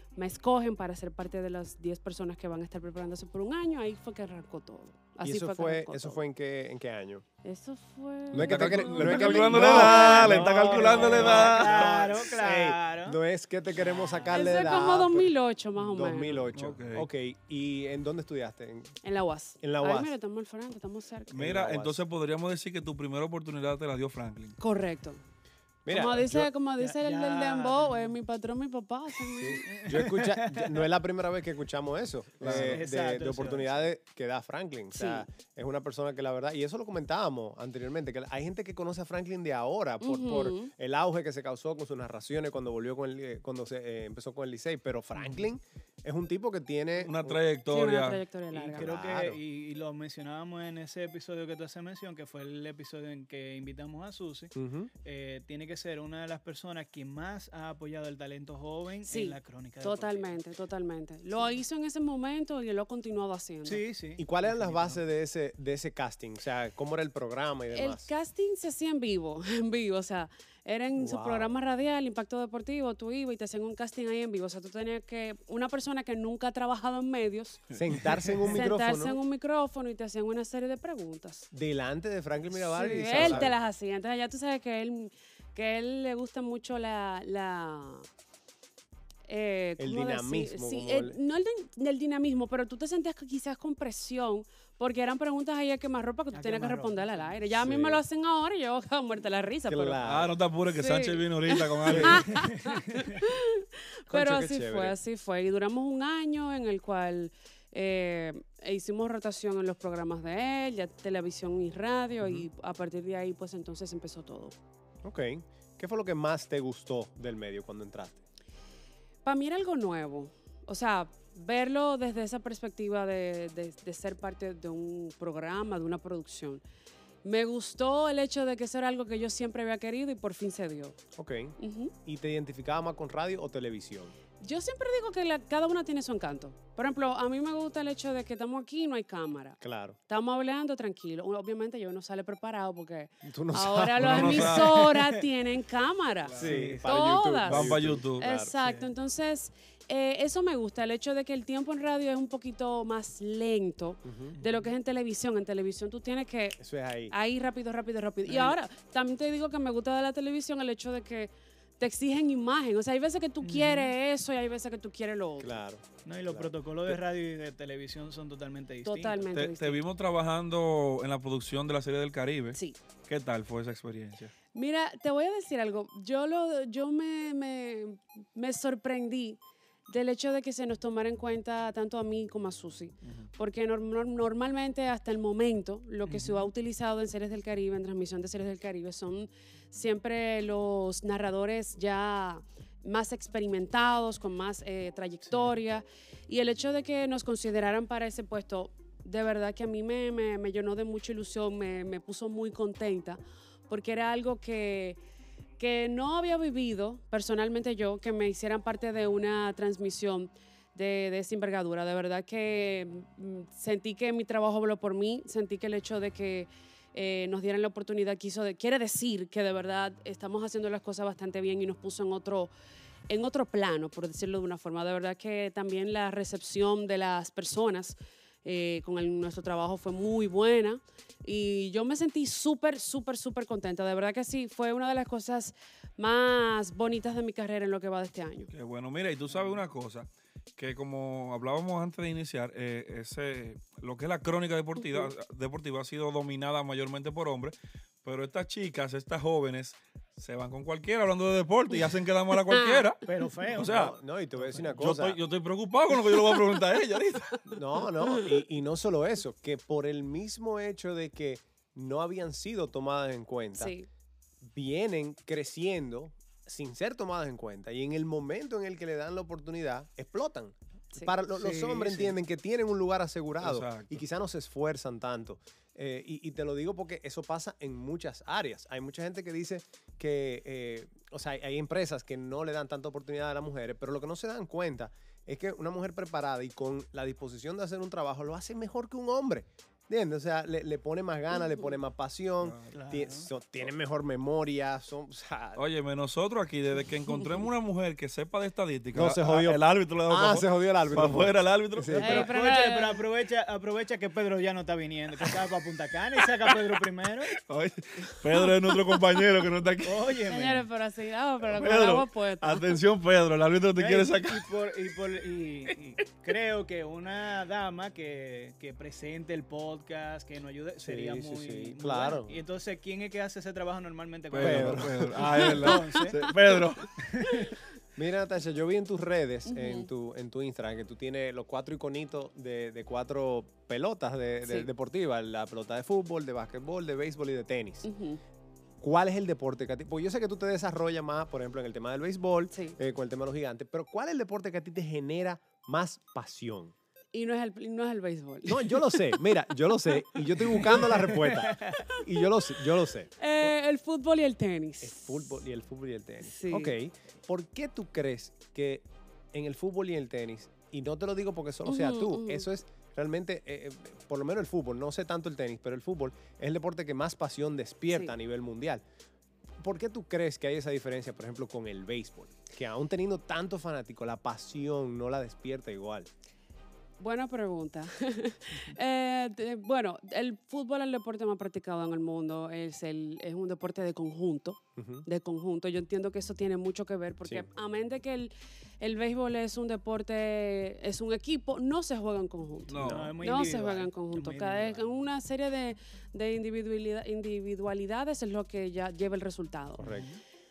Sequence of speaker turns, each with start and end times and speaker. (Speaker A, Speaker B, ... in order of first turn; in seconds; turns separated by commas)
Speaker A: 0.1-6.2, Speaker B: 5.2-7.2, Speaker A: 7.4-11.0, Speaker B: 8.3-18.9, Speaker C: 8.3-12.2, Speaker D: 9.5-13.2, Speaker A: 14.3-16.4, Speaker C: 16.5-17.1, Speaker A: 19.0-21.3, Speaker B: 19.6-20.1, Speaker B: 21.3-22.0, Speaker C: 21.3-24.6, Speaker A: 24.6-25.2, Speaker B: 25.9-26.5, Speaker A: 25.9-29.8, Speaker D: 26.8-28.1, Speaker B: 29.3-47.4, Speaker D: 29.7-30.9, Speaker C: 32.4-32.8, Speaker D: 32.4-33.9, Speaker A: 34.9-35.2, Speaker A: 40.0-40.7, Speaker C: 47.0-48.2, Speaker A: 47.7-48.9, Speaker B: 48.5-49.4, Speaker D: 48.6-54.5, Speaker B: 54.5-54.9, Speaker D: 55.0-60.4, Speaker A: 59.0-63.8, Speaker D: 63.6-65.0, Speaker B: 64.2-68.1, Speaker A: 67.7-77.7, Speaker B: 71.0-71.5, Speaker B: 77.7-79.2, Speaker A: 78.5-81.5, Speaker B: 81.5-83.5, Speaker A: 82.7-88.0, Speaker D: 82.8-83.5, Speaker A: 89.3-100.0, Speaker B: 89.8-91.2, Speaker D: 96.3-97.4, Speaker B: 97.6-98.0, Speaker B: 99.7-100.3, Speaker C: 100.0-102.3, Speaker A: 100.7-114.5, Speaker B: 101.8-102.2, Speaker D: 102.3-103.0, Speaker B: 104.1-105.0, Speaker B: 112.2-112.5, Speaker B: 115.0-118.2, Speaker A: 119.2-126.6, Speaker A: 127.2-131.0, Speaker B: 131.2-134.1, Speaker A: 131.6-131.9, Speaker A: 134.4-165.6, Speaker B: 139.6-140.0, Speaker B: 143.2-144.7, Speaker C: 144.0-144.8, Speaker D: 144.6-145.2, Speaker C: 146.3-146.7, Speaker D: 146.3-146.9, Speaker B: 146.3-148.5, Speaker C: 147.4-148.2, Speaker D: 148.6-148.9, Speaker B: 154.0-154.3, Speaker D: 154.3-154.7, Speaker B: 156.6-157.1, Speaker D: 158.2-158.6, Speaker D: 163.4-163.9, Speaker B: 165.4-167.0, Speaker D: 166.0-169.2, Speaker A: 168.8-169.8, Speaker C: 169.3-174.3, Speaker A: 174.5-205.0, Speaker D: 186.0-186.5, Speaker D: 195.3-195.5, Speaker A: 205.6-222.5, Speaker A: 223.1-238.5, Speaker C: 238.5-253.9, Speaker A: 244.8-245.1, Speaker A: 252.3-252.8, Speaker D: 253.0-254.8, Speaker B: 253.6-255.2, Speaker C: 254.8-257.5, Speaker B: 257.4-263.7, Speaker A: 258.0-258.3, Speaker A: 263.5-263.9, Speaker B: 264.4-295.6, Speaker D: 271.4-272.1, Speaker C: 273.4-274.0, Speaker C: 292.4-292.7, Speaker D: 292.7-293.3, Speaker C: 295.6-302.3, Speaker A: 297.1-297.5, Speaker B: 298.9-302.3, Speaker A: 302.0-303.0, Speaker D: 302.1-307.3, Speaker C: 306.4-310.1, Speaker D: 309.8-310.6, Speaker A: 310.3-312.8, Speaker C: 311.4-314.5, Speaker D: 313.8-326.3, Speaker B: 320.8-322.4, Speaker C: 324.3-327.0, Speaker B: 324.4-325.2, Speaker A: 325.2-326.3, Speaker D: 326.9-327.6, Speaker A: 327.3-327.5, Speaker B: 327.9-337.9, Speaker A: 329.5-329.9, Speaker A: 337.8-338.2, Speaker B: 338.8-346.7, Speaker A: 342.5-342.8, Speaker A: 347.1-349.2, Speaker B: 348.4-353.5, Speaker A: 350.4-350.7, Speaker D: 350.6-351.8, Speaker A: 353.2-355.0, Speaker B: 354.8-368.8, Speaker A: 356.2-356.8, Speaker A: 361.6-362.5, Speaker B: 369.6-376.1, Speaker A: 377.0-400.0, Speaker B: 384.8-385.1, Speaker C: 392.7-393.1, Speaker B: 392.8-393.1, Speaker D: 392.8-394.8, Speaker B: 399.8-400.1, Speaker D: 399.9-400.2